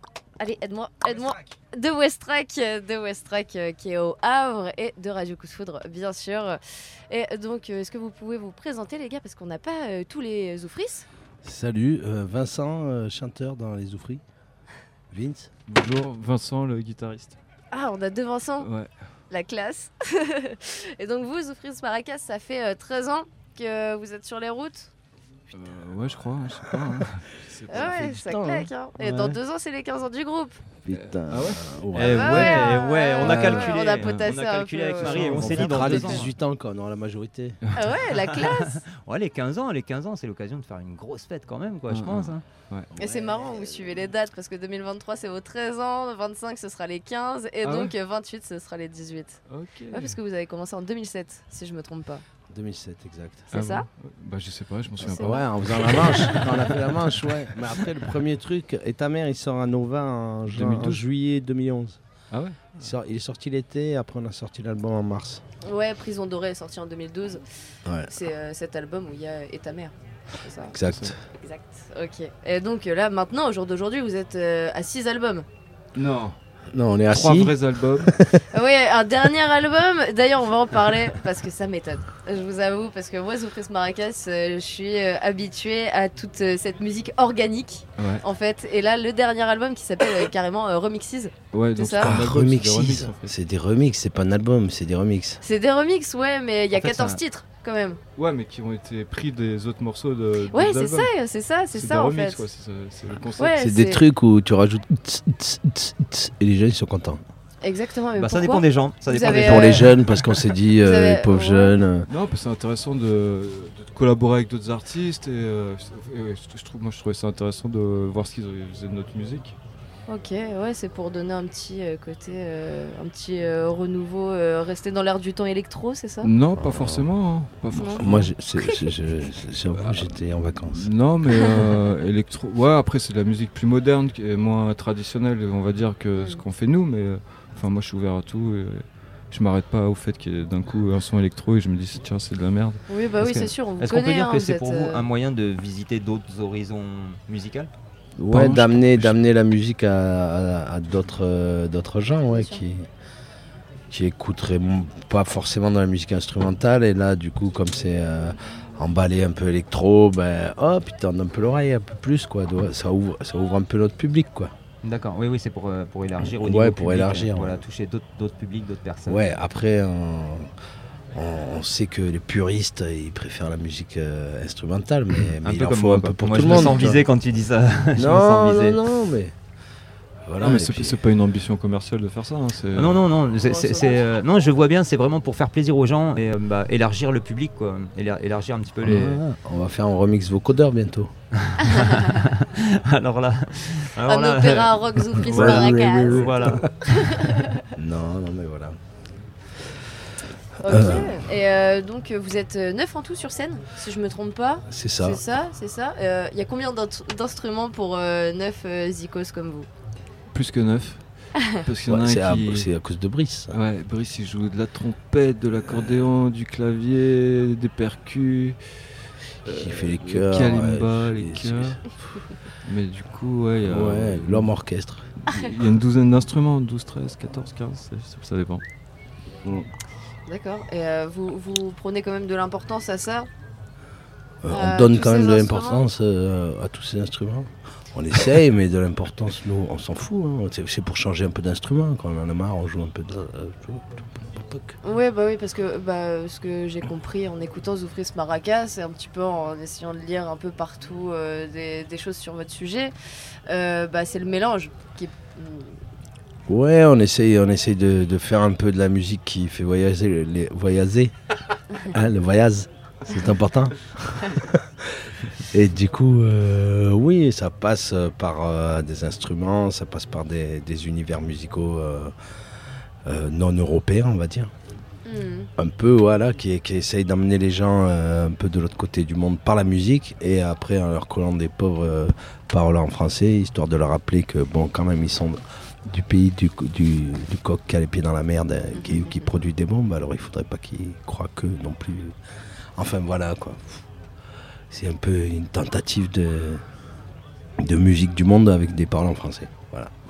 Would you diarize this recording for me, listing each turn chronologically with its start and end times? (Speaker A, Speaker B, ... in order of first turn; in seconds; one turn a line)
Speaker A: 0.4-6.6
Speaker A: 7.1-11.1
Speaker B: 11.4-14.2
Speaker B: 15.1-15.5
Speaker C: 15.7-17.4
Speaker A: 17.7-18.7
Speaker C: 18.6-18.9
Speaker A: 19.3-24.9
Speaker C: 25.5-28.2
Speaker A: 27.7-30.6
Speaker B: 27.7-29.4
Speaker B: 30.8-32.5
Speaker C: 30.9-32.6
Speaker D: 31.9-36.3
Speaker A: 32.0-36.2
Speaker C: 33.2-34.3
Speaker C: 35.0-36.1
Speaker B: 35.2-37.6
Speaker A: 37.7-38.8
Speaker D: 38.1-42.4
Speaker C: 41.9-42.9
Speaker B: 42.9-44.1
Speaker A: 43.0-52.2
Speaker C: 47.6-47.9
Speaker C: 49.5-50.2
Speaker B: 52.5-53.5
Speaker A: 53.5-53.9
Speaker C: 53.5-56.3
Speaker A: 55.0-56.8
Speaker B: 55.2-62.0
Speaker C: 60.5-61.0
Speaker C: 62.3-62.8
Speaker B: 62.7-65.4
Speaker A: 65.6-67.4
Speaker A: 68.1-70.8
Speaker B: 70.7-71.2
Speaker C: 70.8-71.1
Speaker A: 71.3-75.5
Speaker C: 75.9-76.4
Speaker B: 76.7-78.4
Speaker C: 77.1-78.2
Speaker A: 78.5-92.1
Speaker C: 88.0-88.2
Speaker C: 91.5-93.3
Speaker B: 92.0-95.4
Speaker A: 95.4-98.0
Speaker C: 96.7-97.2
Speaker C: 98.2-101.1
Speaker A: 100.5-102.4
Speaker C: 101.7-103.6
Speaker A: 103.3-104.0
Speaker B: 103.6-107.2
Speaker A: 107.6-109.9
Speaker D: 108.2-110.0
Speaker B: 109.1-112.1
Speaker A: 110.8-111.7
Speaker C: 112.1-119.5
Speaker A: 120.1-126.3
Speaker C: 126.2-128.3
Speaker B: 126.6-127.1
Speaker A: 127.7-128.1
Speaker B: 128.0-130.9
Speaker A: 128.6-128.9
Speaker C: 130.7-142.8
Speaker A: 136.1-136.4
Speaker A: 142.9-145.1
Speaker D: 143.2-147.7
Speaker B: 148.2-152.8
Speaker C: 148.3-149.3
Speaker A: 152.3-152.6
Speaker B: 153.9-164.5
Speaker D: 164.8-169.3
Speaker B: 166.4-167.6
Speaker B: 169.1-170.5
Speaker B: 171.1-177.1
Speaker D: 175.4-178.8
Speaker A: 176.5-176.8
Speaker B: 177.9-179.3
Speaker B: 180.2-181.0
Speaker C: 180.4-183.0
Speaker D: 182.7-189.2
Speaker A: 183.4-184.1
Speaker B: 188.8-191.1
Speaker D: 191.5-196.6
Speaker A: 191.7-192.0
Speaker A: 194.1-196.3
Speaker B: 195.2-197.2
Speaker A: 196.8-197.6
Speaker B: 197.7-198.8
Speaker A: 200.6-209.7
Speaker B: 200.6-201.2
Speaker B: 204.7-205.2
Speaker C: 210.3-211.0
Speaker C: 211.5-212.7
Speaker B: 211.8-213.5
Speaker C: 213.5-218.6
Speaker C: 219.4-221.8
Speaker B: 219.5-221.8
Speaker C: 222.6-224.5
Speaker B: 223.6-225.1
Speaker C: 225.2-228.6
Speaker B: 229.4-229.7
Speaker A: 230.2-233.3
Speaker B: 234.4-244.8
Speaker A: 234.5-235.8
Speaker A: 244.8-252.9
Speaker A: 253.5-255.8
Speaker B: 256.5-261.1
Speaker B: 261.8-272.1
Speaker B: 273.1-274.5
Speaker A: 275.1-275.5
Speaker B: 275.6-292.1
Speaker B: 292.8-293.8
Speaker B: 294.7-296.6
Speaker B: 297.6-300.0